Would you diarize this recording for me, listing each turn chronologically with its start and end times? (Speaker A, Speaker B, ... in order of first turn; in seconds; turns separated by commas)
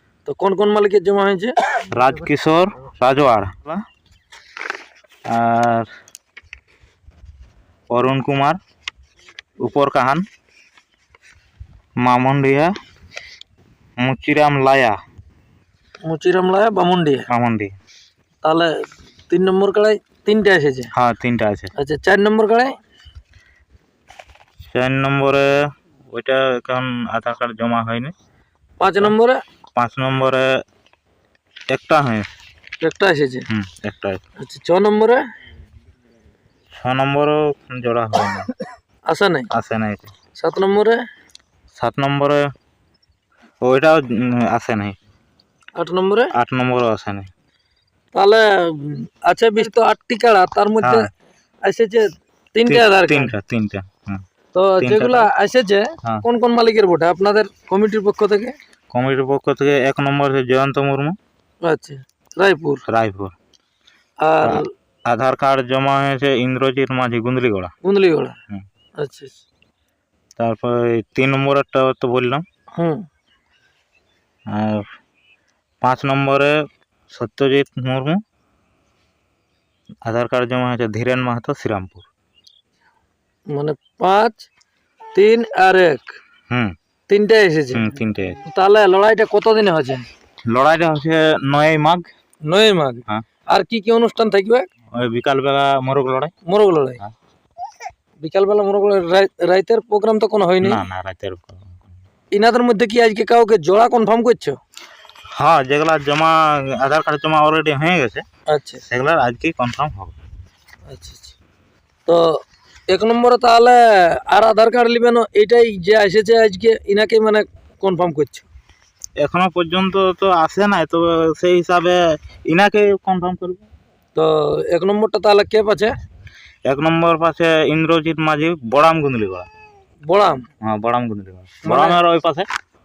Speaker A: 0.3-1.5, Speaker B: 1.9-3.8, Speaker B: 5.3-5.9, Speaker B: 7.9-8.6, Speaker B: 9.6-10.2, Speaker B: 12.0-12.7, Speaker B: 14.0-15.0, Speaker A: 16.0-17.3, Speaker B: 17.3-17.8, Speaker A: 18.4-18.7, Speaker A: 19.3-20.9, Speaker B: 20.9-21.7, Speaker A: 21.8-22.7, Speaker B: 24.6-28.1, Speaker A: 28.8-29.4, Speaker B: 29.8-30.6, Speaker B: 31.7-32.3, Speaker A: 32.8-33.5, Speaker B: 33.5-34.2, Speaker A: 34.4-35.2, Speaker B: 36.8-38.5, Speaker A: 39.1-39.5, Speaker B: 39.5-40.1, Speaker A: 40.4-41.0, Speaker B: 41.8-42.5, Speaker B: 43.6-45.0, Speaker A: 45.8-46.3, Speaker B: 46.4-47.3, Speaker A: 48.1-51.1, Speaker B: 50.8-51.1, Speaker A: 51.6-53.3, Speaker B: 52.7-54.2, Speaker A: 54.5-58.5, Speaker B: 54.8-55.3, Speaker B: 58.9-61.2, Speaker A: 61.6-62.8, Speaker B: 62.9-63.4, Speaker A: 64.2-64.7, Speaker B: 64.4-67.7, Speaker A: 67.8-68.3, Speaker A: 69.0-69.4, Speaker B: 70.4-72.4, Speaker A: 72.8-73.1, Speaker B: 74.5-74.9, Speaker B: 75.8-76.5, Speaker B: 77.1-78.2, Speaker B: 80.1-82.1, Speaker A: 83.5-84.4, Speaker A: 85.1-86.1, Speaker B: 86.5-86.8, Speaker A: 87.1-87.9, Speaker B: 87.8-88.4, Speaker A: 88.5-90.1, Speaker B: 90.5-92.1, Speaker A: 92.5-94.7, Speaker B: 95.0-96.3, Speaker A: 96.5-97.0, Speaker A: 98.2-100.8, Speaker B: 100.6-102.0, Speaker A: 102.3-104.6, Speaker B: 105.3-108.2, Speaker A: 108.5-108.8, Speaker B: 108.9-110.2, Speaker A: 110.9-111.3, Speaker A: 112.9-118.5, Speaker B: 119.2-122.0, Speaker B: 122.5-123.7, Speaker A: 124.2-125.9, Speaker B: 126.7-129.5, Speaker A: 130.1-130.4, Speaker B: 130.6-132.5, Speaker A: 131.6-132.0